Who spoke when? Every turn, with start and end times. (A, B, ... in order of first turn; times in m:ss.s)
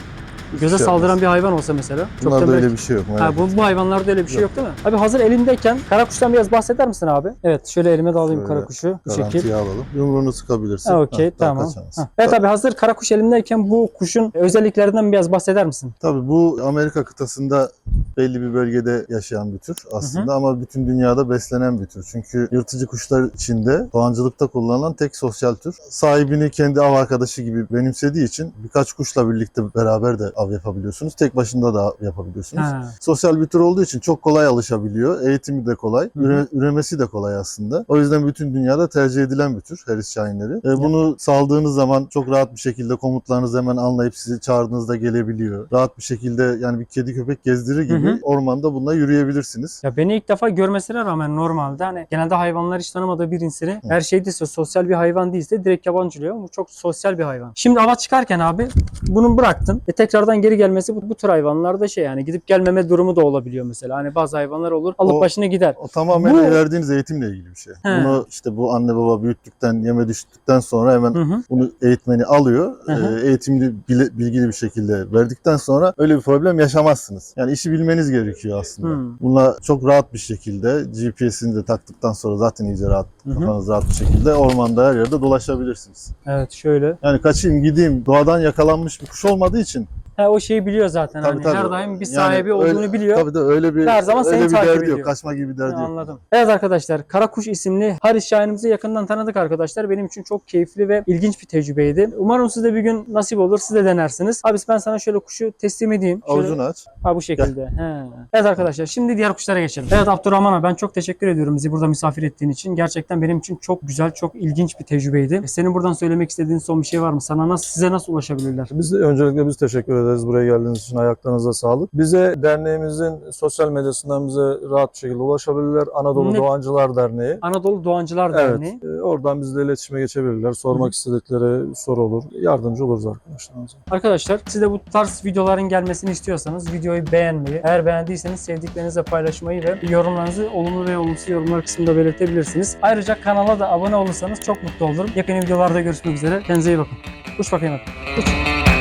0:00.5-0:01.2 A
0:00.6-0:09.5 B
0:02.2-0:03.7 A
0:08.2-0:12.3 A
0:10.8-0:16.0 B
0:16.0-0:49.8 A
0:20.0-0:20.3 B
0:32.6-0:32.9 B
0:36.2-0:36.4 B
0:47.9-0:48.2 B
0:49.8-1:06.6 B
1:05.0-1:26.1 A
1:07.8-1:08.2 B
1:11.1-1:11.4 B
1:12.9-1:13.2 B
1:18.8-1:19.2 B
1:23.3-1:23.5 B
1:26.2-1:27.0 B
1:27.0-1:29.9 A
1:30.2-1:33.3 B
1:31.2-1:36.2 A
1:33.8-1:58.7 B
1:46.2-1:46.9 A
1:58.7-2:07.4 C
2:06.2-2:06.5 B
2:07.4-2:08.8 B
2:08.3-2:13.8 C
2:13.9-2:28.4 B